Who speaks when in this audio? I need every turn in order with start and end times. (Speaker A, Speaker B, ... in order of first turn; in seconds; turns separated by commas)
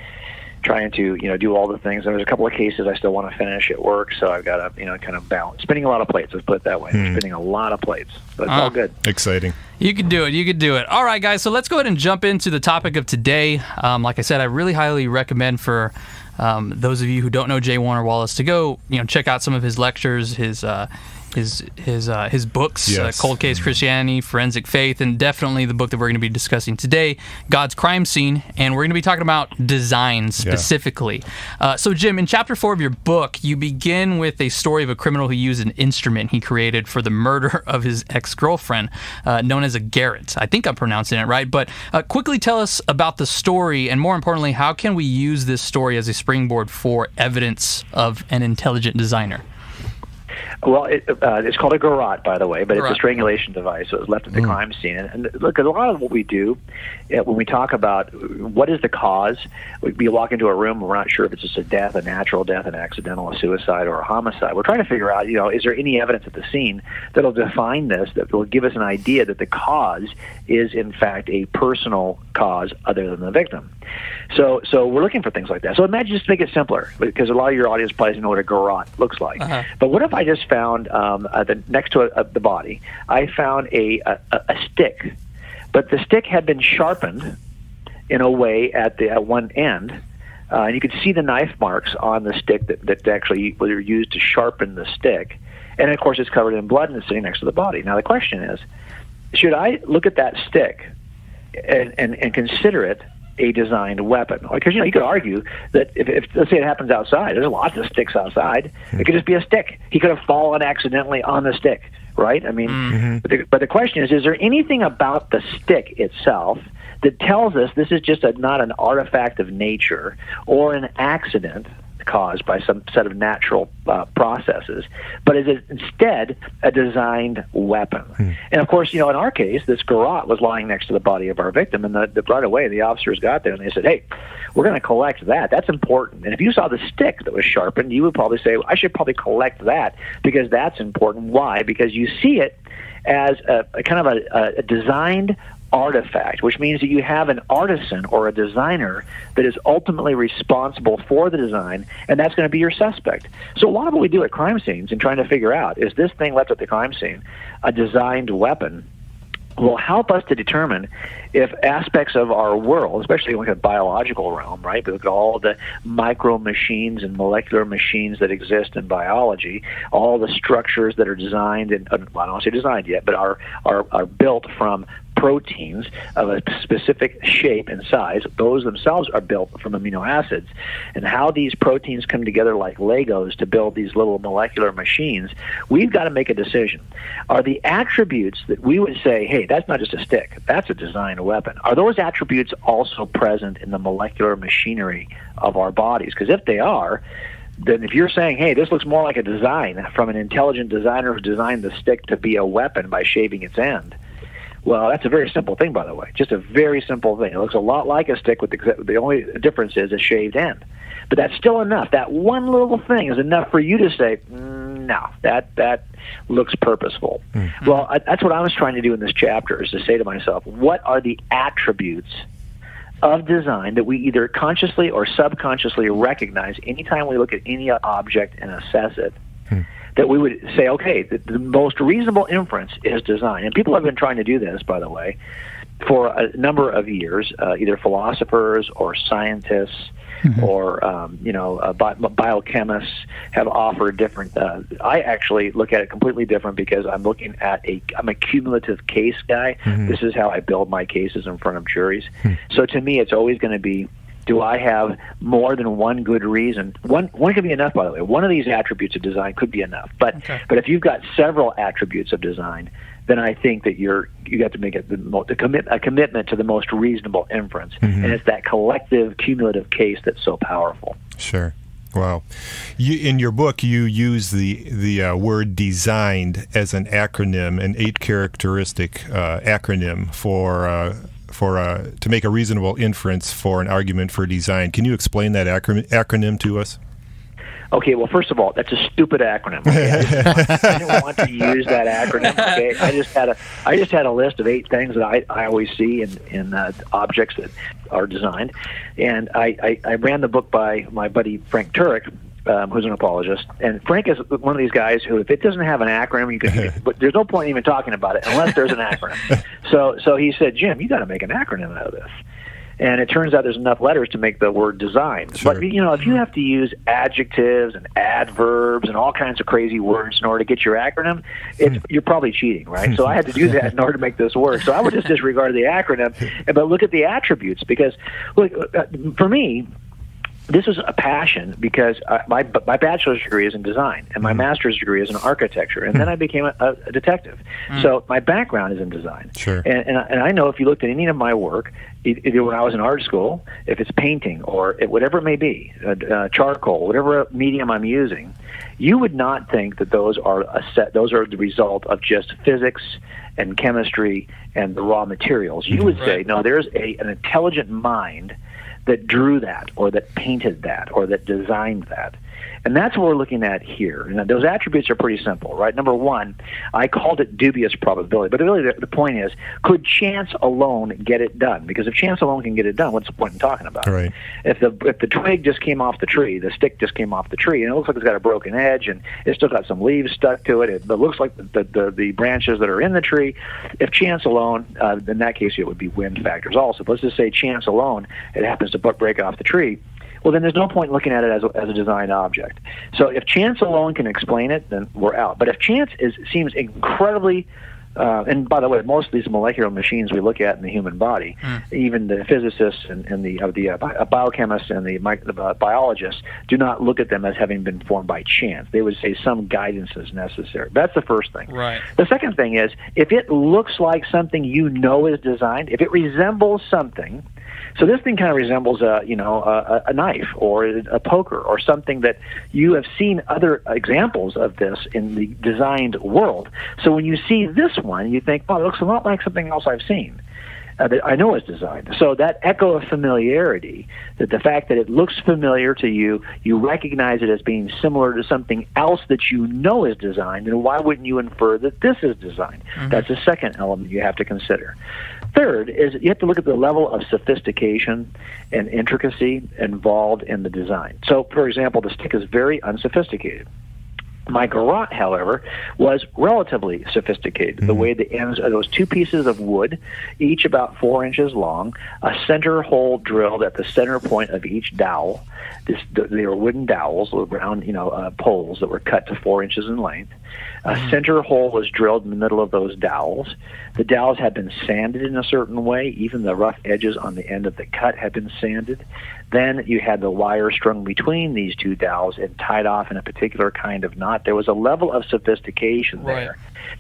Speaker A: 0.6-9.0, Speaker B: 6.9-7.2, Speaker C: 8.5-8.7, Speaker B: 9.0-9.6, Speaker C: 9.8-49.4, Speaker B: 22.9-23.3, Speaker A: 50.6-56.6, Speaker A: 57.1-73.7, Speaker A: 74.3-85.2, Speaker C: 79.4-79.7, Speaker A: 85.7-87.4, Speaker A: 88.1-90.0, Speaker A: 90.5-98.6, Speaker A: 99.3-100.9, Speaker A: 101.6-134.0, Speaker C: 112.7-112.9, Speaker B: 112.9-113.2, Speaker A: 134.6-158.9, Speaker A: 159.6-197.0, Speaker A: 197.6-204.0, Speaker A: 204.7-222.2, Speaker C: 217.6-217.9, Speaker A: 223.0-229.2, Speaker A: 230.0-235.2, Speaker A: 235.8-271.0, Speaker B: 267.8-268.1, Speaker B: 271.2-286.8, Speaker A: 287.7-312.1, Speaker B: 290.1-290.6, Speaker A: 312.8-329.7, Speaker B: 315.4-315.6, Speaker A: 330.5-358.4, Speaker B: 339.4-339.7, Speaker A: 358.9-417.2, Speaker B: 373.9-374.1, Speaker C: 411.5-411.9, Speaker A: 417.8-430.2, Speaker A: 430.8-444.8, Speaker A: 445.3-453.4, Speaker A: 454.3-470.1, Speaker A: 470.6-486.4, Speaker C: 486.0-486.3